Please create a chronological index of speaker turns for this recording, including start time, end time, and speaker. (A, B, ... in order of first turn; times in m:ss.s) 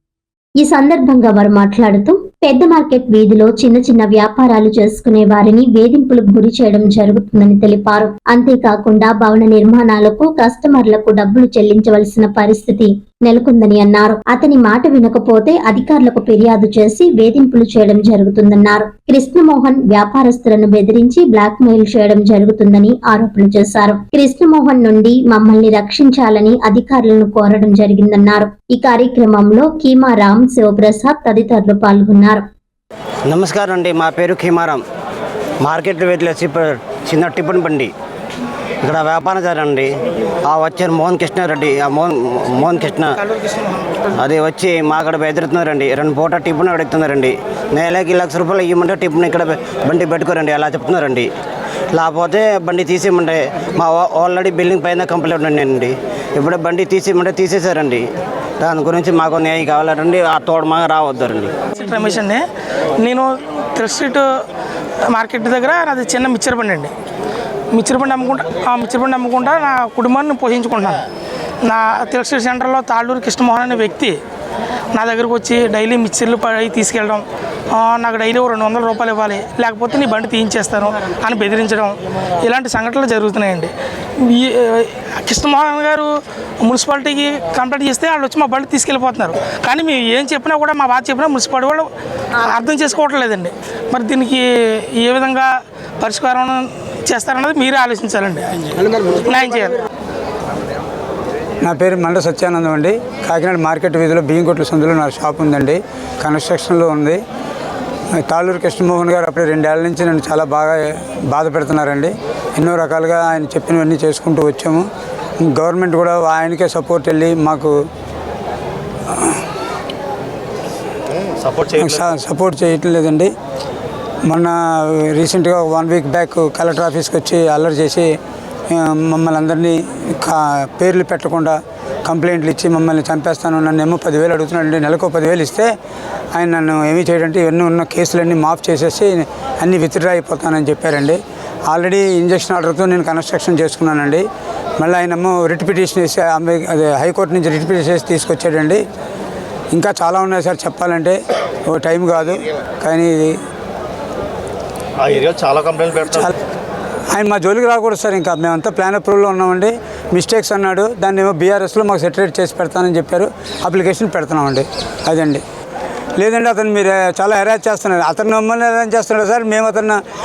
0:00.6-0:32.4 A
0:33.3-0:34.8 B
0:35.6-0:37.9 B
0:38.8-0:39.9 B
0:40.4-0:43.1 B
0:43.2-0:44.1 C
0:44.2-0:51.3 B
0:51.9-0:58.0 B
0:58.6-1:01.5 B
1:01.7-1:02.4 C
1:03.0-1:04.4 C
1:05.1-1:06.9 C
1:07.7-1:11.0 C
1:11.6-1:14.2 C
1:14.9-1:39.8 C
1:41.6-1:47.2 D
1:48.1-1:54.8 D
1:55.4-1:57.7 D
1:59.1-1:59.4 D
2:01.4-2:02.1 E
2:01.8-2:03.3 D
2:04.2-2:08.1 D
2:08.7-2:15.7 D
2:16.3-2:24.2 D
2:24.8-2:28.8 D
2:29.7-2:33.4 D
2:35.0-2:36.3 E
2:37.1-2:45.4 D
2:46.2-2:50.0 D